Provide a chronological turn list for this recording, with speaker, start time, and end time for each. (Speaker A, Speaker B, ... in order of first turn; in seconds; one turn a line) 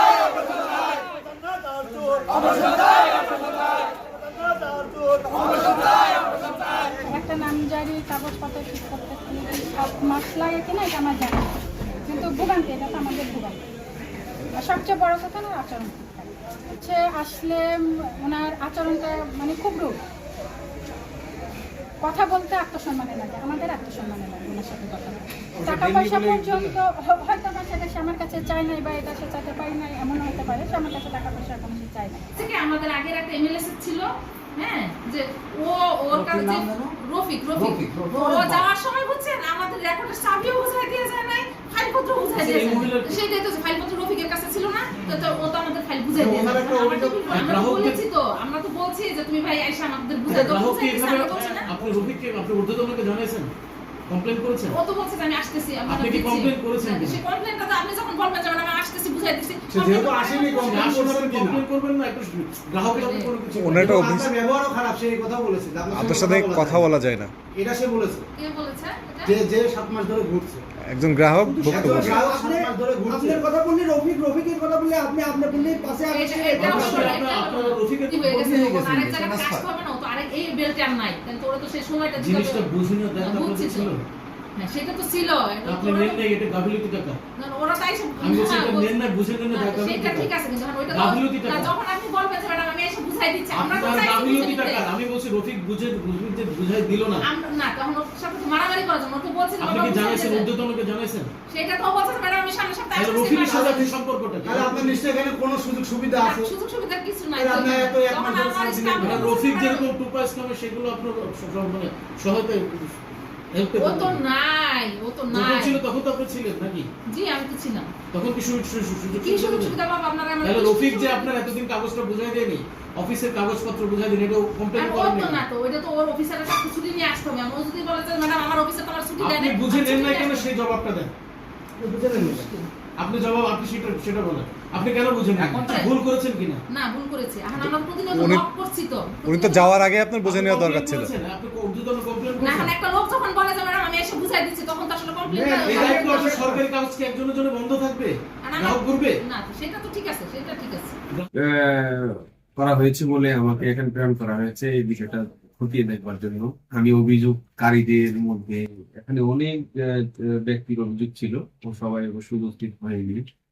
Speaker A: 7.0-13.6
Speaker A: 14.5-20.0
Speaker A: 22.0-32.3
Speaker B: 25.6-26.8
Speaker C: 32.4-51.9
Speaker D: 36.1-36.9
Speaker D: 37.5-38.6
Speaker B: 42.3-43.2
Speaker D: 46.2-47.0
Speaker E: 46.5-47.3
Speaker B: 47.3-48.0
Speaker B: 50.3-53.5
Speaker B: 54.1-54.8
Speaker C: 54.7-60.9
Speaker B: 55.9-57.2
Speaker E: 59.7-61.6
Speaker B: 60.5-64.1
Speaker C: 62.9-63.4
Speaker F: 63.5-64.3
Speaker E: 63.8-66.8
Speaker F: 65.9-67.3
Speaker E: 67.5-68.2
Speaker C: 68.4-69.3
Speaker E: 69.2-70.6
Speaker F: 70.9-72.2
Speaker D: 71.4-77.1
Speaker E: 71.6-73.4
Speaker C: 75.6-82.7
Speaker E: 76.5-77.2
Speaker B: 76.6-79.1
Speaker D: 79.2-79.6
Speaker B: 82.2-84.0
Speaker C: 83.2-83.9
Speaker C: 84.6-86.2
Speaker B: 85.7-87.2
Speaker C: 87.3-89.0
Speaker B: 88.2-90.3
Speaker C: 89.5-94.9
Speaker B: 90.9-91.7
Speaker B: 93.5-97.2
Speaker C: 97.2-100.5
Speaker B: 99.6-101.3
Speaker C: 101.5-103.9
Speaker B: 102.9-105.0
Speaker E: 104.4-106.5
Speaker C: 106.2-109.9
Speaker E: 107.3-109.3
Speaker B: 109.0-113.0
Speaker B: 113.5-114.2
Speaker C: 113.8-115.8
Speaker B: 115.3-116.9
Speaker C: 117.1-117.9
Speaker B: 118.1-119.8
Speaker C: 119.1-121.5
Speaker B: 120.4-125.4
Speaker C: 124.8-130.5
Speaker B: 129.2-131.1
Speaker B: 131.8-136.6
Speaker C: 132.1-132.7
Speaker G: 135.4-135.8
Speaker C: 135.6-135.9
Speaker C: 136.7-139.9
Speaker F: 138.1-138.5
Speaker F: 139.2-141.1
Speaker B: 140.2-142.7
Speaker C: 142.4-146.5
Speaker D: 145.3-146.6
Speaker B: 145.7-149.2
Speaker E: 145.7-146.4
Speaker C: 148.4-150.9
Speaker G: 151.3-163.2